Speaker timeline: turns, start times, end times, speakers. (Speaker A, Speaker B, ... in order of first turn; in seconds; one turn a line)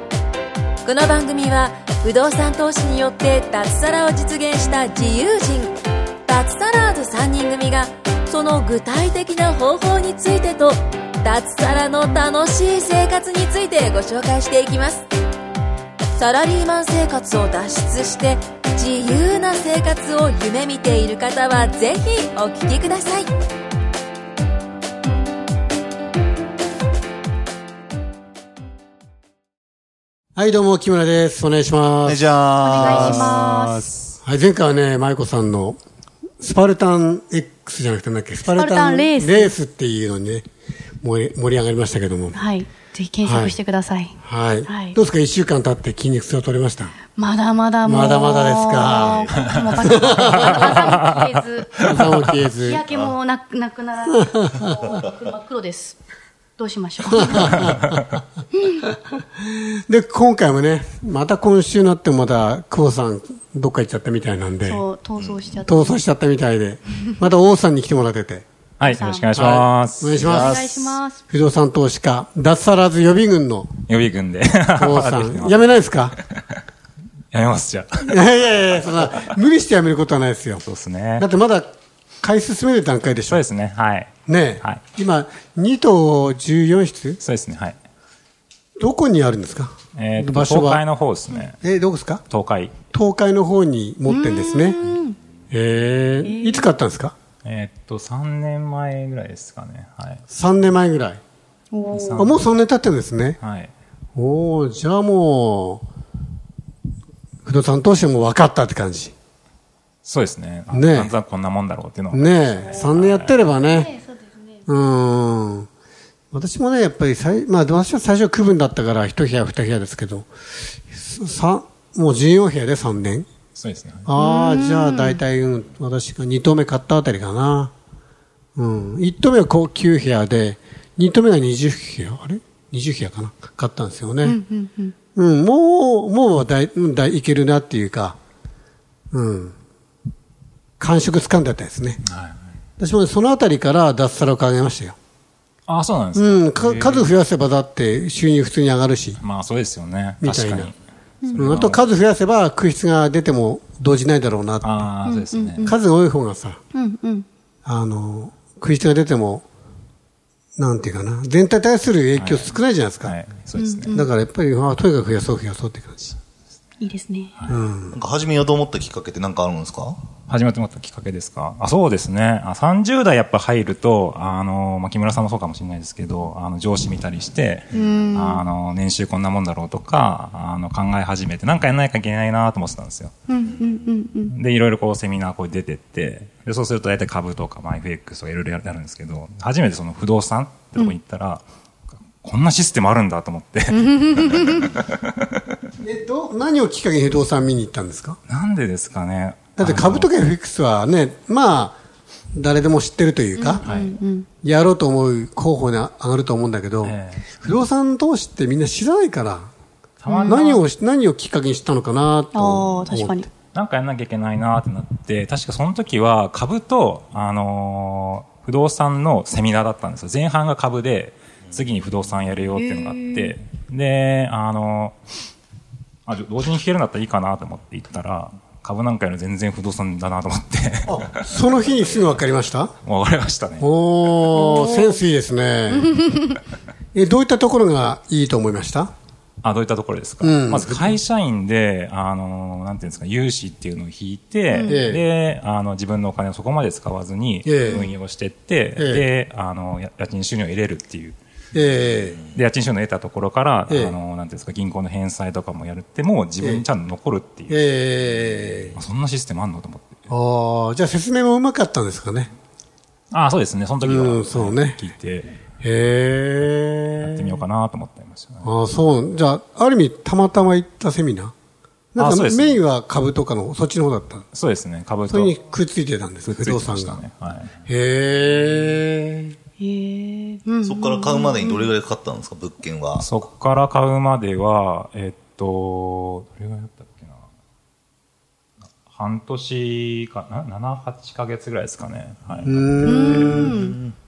Speaker A: 0.8-15.1
Speaker A: 16.1-23.3
Speaker B: 30.4-32.2
Speaker C: 32.0-33.7
Speaker D: 32.6-33.9
Speaker B: 32.8-33.4
Speaker B: 34.2-35.8
Speaker B: 36.4-40.4
Speaker D: 38.5-39.5
Speaker B: 41.0-42.4
Speaker D: 42.3-45.0
Speaker B: 43.2-43.6
Speaker B: 44.2-47.0
Speaker D: 47.1-56.0
Speaker B: 47.8-49.3
Speaker C: 48.8-49.9
Speaker E: 49.4-51.3
Speaker B: 49.8-50.7
Speaker B: 51.8-52.8
Speaker C: 52.9-53.1
Speaker D: 56.6-57.8
Speaker B: 57.1-58.0
Speaker B: 59.9-64.8
Speaker D: 64.6-66.0
Speaker C: 65.2-65.6
Speaker B: 65.7-68.5
Speaker E: 68.8-70.5
Speaker D: 68.8-69.3
Speaker B: 69.3-73.7
Speaker D: 70.2-71.2
Speaker C: 70.3-70.6
Speaker E: 73.9-76.4
Speaker B: 74.8-76.2
Speaker E: 77.3-78.2
Speaker B: 78.0-80.6
Speaker E: 80.6-81.3
Speaker B: 81.2-83.4
Speaker E: 83.3-84.8
Speaker B: 84.3-87.2
Speaker E: 87.2-87.8
Speaker B: 88.8-90.8
Speaker E: 90.0-91.6
Speaker B: 91.6-92.2
Speaker E: 92.3-92.8
Speaker B: 92.9-94.8
Speaker D: 94.1-95.2
Speaker B: 95.5-97.1
Speaker D: 96.2-96.7
Speaker E: 97.4-100.2
Speaker B: 100.3-101.2
Speaker D: 101.7-102.3
Speaker E: 101.9-102.4
Speaker B: 102.2-103.4
Speaker E: 103.4-103.7
Speaker B: 104.1-105.8
Speaker B: 107.5-109.1
Speaker E: 110.0-113.4
Speaker B: 110.7-111.1
Speaker B: 112.1-113.9
Speaker D: 112.6-112.9
Speaker D: 113.6-114.6
Speaker B: 114.7-115.7
Speaker B: 116.3-123.3
Speaker E: 123.5-124.1
Speaker B: 124.0-127.7
Speaker D: 124.2-125.2
Speaker B: 128.6-134.4
Speaker D: 134.2-134.9
Speaker B: 135.1-138.2
Speaker B: 139.1-139.6
Speaker B: 140.8-142.0
Speaker E: 142.0-142.4
Speaker B: 142.8-144.9
Speaker E: 145.7-147.1
Speaker B: 146.1-149.2
Speaker E: 149.2-150.7
Speaker B: 150.2-150.7
Speaker E: 151.3-151.8
Speaker B: 151.3-154.9
Speaker E: 154.6-155.7
Speaker D: 155.1-155.8
Speaker B: 155.6-156.6
Speaker D: 156.7-157.3
Speaker B: 157.6-159.4
Speaker B: 160.6-163.1
Speaker E: 162.1-164.0
Speaker D: 163.6-164.1
Speaker B: 163.9-166.1
Speaker D: 166.8-167.3
Speaker B: 167.5-168.0
Speaker C: 167.9-170.0
Speaker E: 170.3-183.1
Speaker D: 177.7-178.4
Speaker C: 177.7-178.2
Speaker D: 183.3-184.3
Speaker C: 183.4-183.9
Speaker E: 184.3-191.4
Speaker E: 192.1-195.4
Speaker D: 193.7-194.7
Speaker B: 195.8-198.2
Speaker E: 198.3-200.1
Speaker B: 199.6-201.8
Speaker B: 202.3-203.6
Speaker D: 203.3-204.3
Speaker E: 203.6-203.9
Speaker B: 204.4-209.5
Speaker E: 206.8-207.3
Speaker E: 210.0-210.6
Speaker D: 210.1-210.5
Speaker B: 210.2-213.3
Speaker D: 212.3-213.3
Speaker E: 213.5-225.0
Speaker D: 222.5-223.3
Speaker E: 226.1-232.2
Speaker B: 230.8-232.7
Speaker E: 232.8-233.7
Speaker B: 233.6-236.1
Speaker D: 234.3-235.0
Speaker D: 235.9-236.3
Speaker B: 236.9-238.9
Speaker E: 239.4-251.2
Speaker B: 240.2-241.0
Speaker D: 244.5-244.8
Speaker B: 244.7-245.0
Speaker B: 247.4-247.9
Speaker B: 248.8-249.1
Speaker B: 251.5-252.2
Speaker E: 252.3-257.6
Speaker B: 253.7-253.9
Speaker B: 256.4-256.6
Speaker B: 257.5-258.8
Speaker E: 258.7-260.1
Speaker B: 260.1-262.3
Speaker E: 263.1-265.4
Speaker B: 263.8-264.8
Speaker B: 265.6-267.4
Speaker E: 267.0-268.5
Speaker B: 268.4-271.3
Speaker B: 271.9-274.2
Speaker E: 272.0-272.6
Speaker E: 274.3-275.4
Speaker B: 275.1-277.0
Speaker E: 276.2-277.6
Speaker B: 277.6-279.3
Speaker D: 279.6-281.7
Speaker C: 280.6-283.1
Speaker E: 283.0-287.2
Speaker E: 288.8-293.5
Speaker B: 292.4-293.8
Speaker D: 292.8-293.8
Speaker C: 293.5-293.9